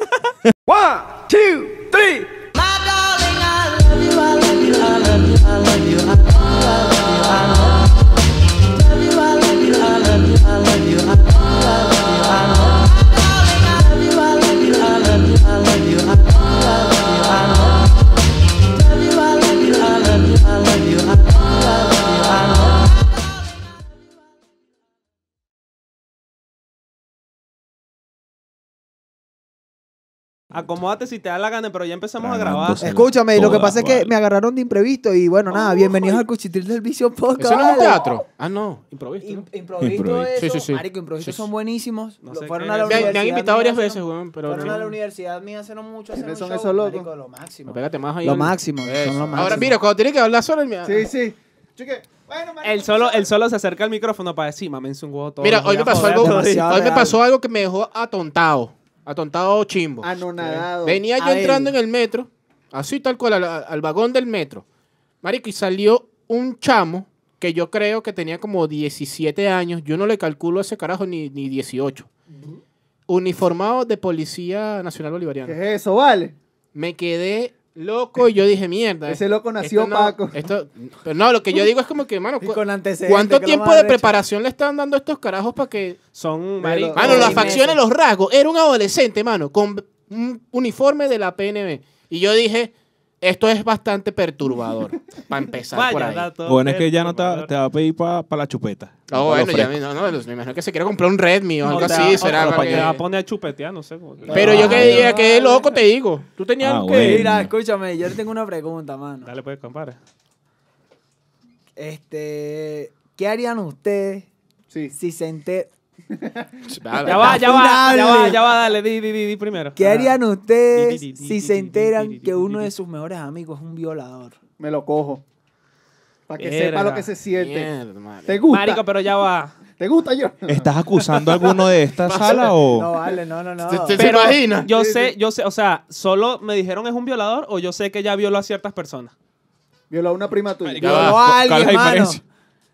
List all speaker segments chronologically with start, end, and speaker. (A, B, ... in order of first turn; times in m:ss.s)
0:00.7-0:02.3 A
0:30.5-0:32.9 B
0:32.2-0:34.1 C
0:32.8-0:38.2 A
0:37.4-0:39.5 D
0:39.2-0:49.8 A
0:39.8-0:40.3 C
0:40.4-0:41.5 D
0:42.2-0:43.2 B
0:42.8-0:44.9 D
0:46.1-0:47.1 E
0:47.7-0:51.1 D
0:50.8-0:53.3 E
0:52.6-0:56.8 B
0:55.4-1:04.6 D
0:55.9-0:57.2 A
1:00.0-1:01.0 E
1:01.2-1:01.8 A
1:05.2-1:12.1 D
1:13.1-1:15.6 D
1:15.4-1:16.4 E
1:16.8-1:26.0 D
1:19.1-1:20.4 E
1:22.4-1:24.2 A
1:26.2-1:27.7 B
1:26.6-1:27.6 E
1:27.0-1:36.3 D
1:27.0-1:27.8 A
1:35.7-1:37.6 B
1:36.4-1:39.8 C
1:39.1-1:43.0 D
1:41.7-1:45.7 B
1:41.7-1:43.0 C
1:44.3-1:45.1 C
1:44.3-1:47.3 D
1:44.3-1:45.6 A
1:46.6-1:47.5 C
1:47.0-1:49.3 A
1:49.2-1:50.0 B
1:51.8-1:54.3 A
1:54.9-1:55.7 A
1:56.1-1:56.6 E
1:56.8-1:57.4 D
1:57.0-2:00.2 B
1:57.2-1:58.4 A
1:59.8-2:04.4 A
2:00.7-2:02.7 B
2:04.6-2:05.2 E
2:06.3-2:07.7 E
2:06.4-2:07.1 B
2:07.4-2:08.4 D
2:08.3-2:08.8 E
2:08.5-2:09.6 B
2:09.8-2:11.2 E
2:10.5-2:12.9 C
2:12.0-2:12.5 D
2:12.7-2:14.4 A
2:13.6-2:14.7 D
2:14.0-2:19.1 B
2:14.7-2:15.2 E
2:19.9-2:21.2 E
2:20.6-2:22.2 C
2:20.8-2:21.2 D
2:20.8-2:22.2 A